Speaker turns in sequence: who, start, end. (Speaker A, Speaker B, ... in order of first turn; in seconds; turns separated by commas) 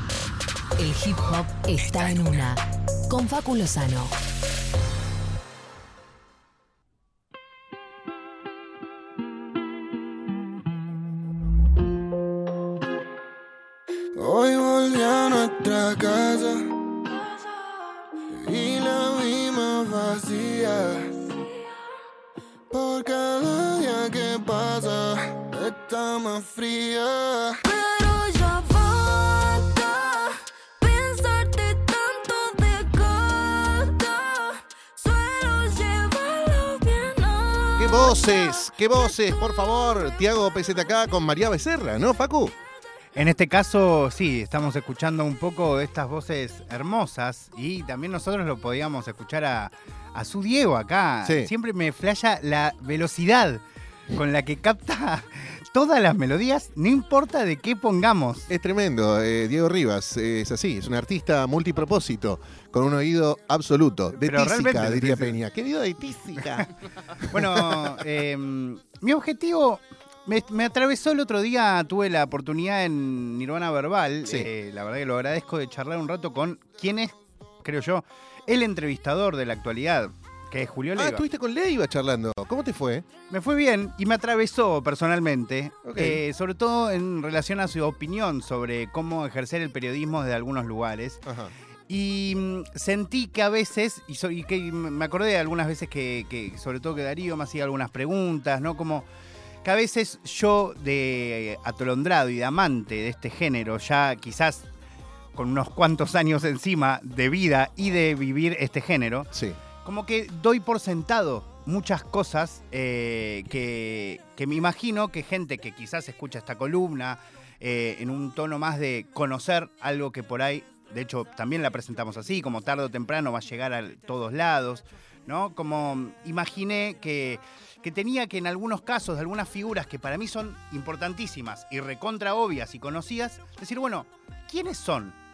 Speaker A: 0.8-4.2, Speaker B: 14.1-16.6, Speaker C: 17.1-17.9, Speaker B: 18.3-21.2, Speaker B: 22.7-27.6, Speaker C: 27.6-40.6, Speaker D: 37.8-42.5, Speaker E: 43.1-58.5, Speaker D: 51.2-51.5, Speaker D: 58.5-68.0, Speaker E: 64.2-65.4, Speaker E: 66.4-66.6, Speaker E: 67.2-81.2, Speaker D: 74.2-74.5, Speaker D: 80.9-83.0, Speaker E: 83.3-91.2, Speaker D: 85.8-86.2, Speaker D: 91.2-91.5, Speaker E: 91.9-99.0, Speaker E: 99.6-104.6, Speaker E: 105.3-109.3, Speaker E: 109.8-135.2